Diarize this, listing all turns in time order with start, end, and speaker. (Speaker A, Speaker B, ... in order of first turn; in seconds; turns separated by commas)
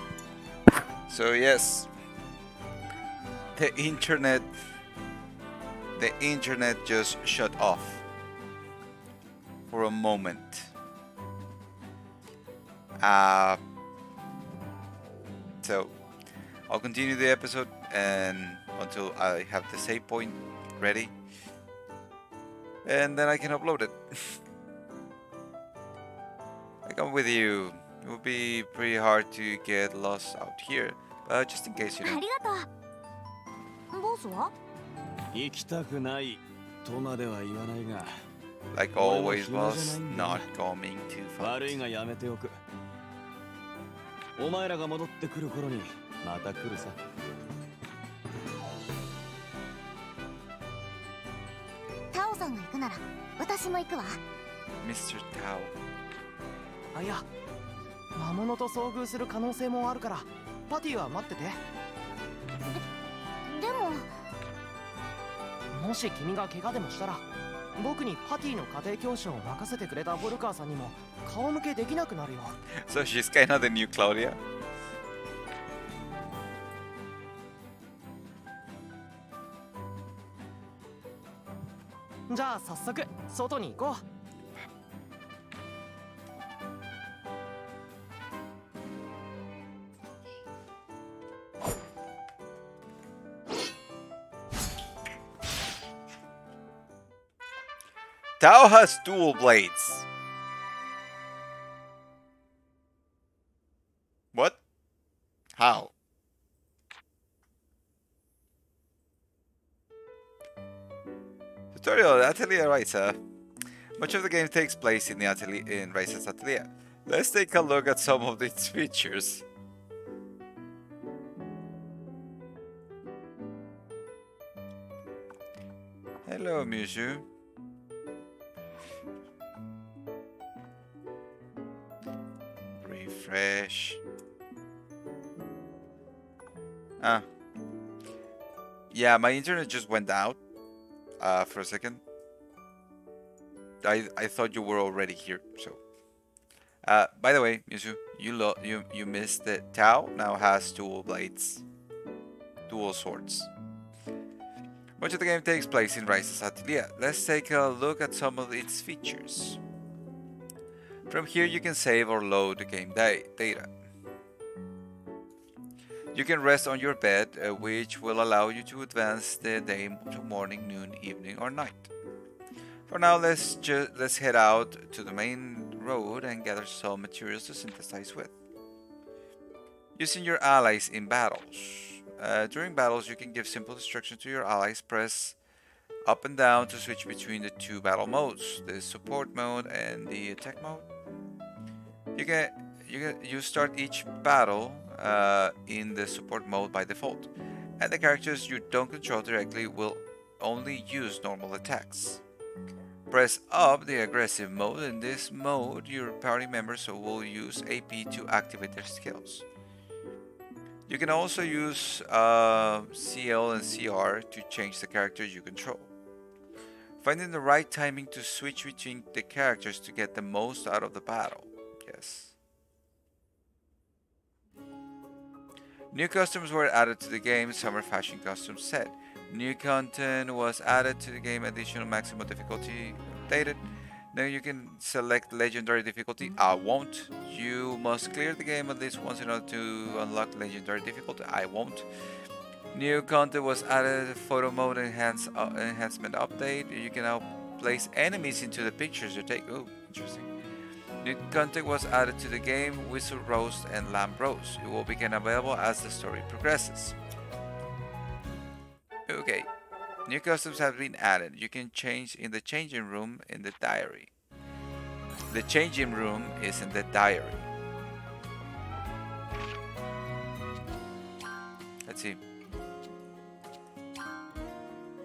Speaker A: 1.1-1.9, Speaker A: 3.5-4.5, Speaker A: 6.0-8.0, Speaker A: 9.7-10.7, Speaker A: 13.0-13.6, Speaker A: 15.6-15.9, Speaker A: 16.7-21.1, Speaker A: 22.9-24.4, Speaker A: 26.9-32.2, Speaker B: 32.0-32.7, Speaker B: 33.9-34.5, Speaker C: 35.3-38.1, Speaker A: 38.7-41.8, Speaker C: 39.0-40.5, Speaker C: 41.4-42.6, Speaker C: 44.4-47.0, Speaker B: 52.1-54.2, Speaker A: 54.8-55.8, Speaker D: 56.9-57.3, Speaker D: 58.1-61.6, Speaker B: 63.5-64.1, Speaker D: 65.7-67.2, Speaker D: 67.8-72.6, Speaker A: 72.8-74.4, Speaker D: 82.3-84.0, Speaker A: 98.4-100.0, Speaker A: 104.3-104.6, Speaker A: 105.6-105.9, Speaker A: 111.7-113.2, Speaker A: 114.0-119.5, Speaker A: 126.3-127.2, Speaker A: 132.8-134.0, Speaker A: 137.0-137.3, Speaker A: 138.9-140.4, Speaker A: 141.2-142.0, Speaker A: 143.8-145.8, Speaker A: 146.8-151.6, Speaker A: 152.7-153.5, Speaker A: 155.0-159.6, Speaker A: 161.1-163.7, Speaker A: 166.1-171.9, Speaker A: 172.9-178.3, Speaker A: 180.0-185.4, Speaker A: 186.1-190.9, Speaker A: 192.2-202.2, Speaker A: 203.1-209.4, Speaker A: 210.9-215.9, Speaker A: 217.0-222.3, Speaker A: 225.9-233.6, Speaker A: 234.1-241.9, Speaker A: 242.7-250.3, Speaker A: 251.0-257.0, Speaker A: 259.1-259.5, Speaker A: 260.1-264.1, Speaker A: 265.3-267.5, Speaker A: 271.9-272.2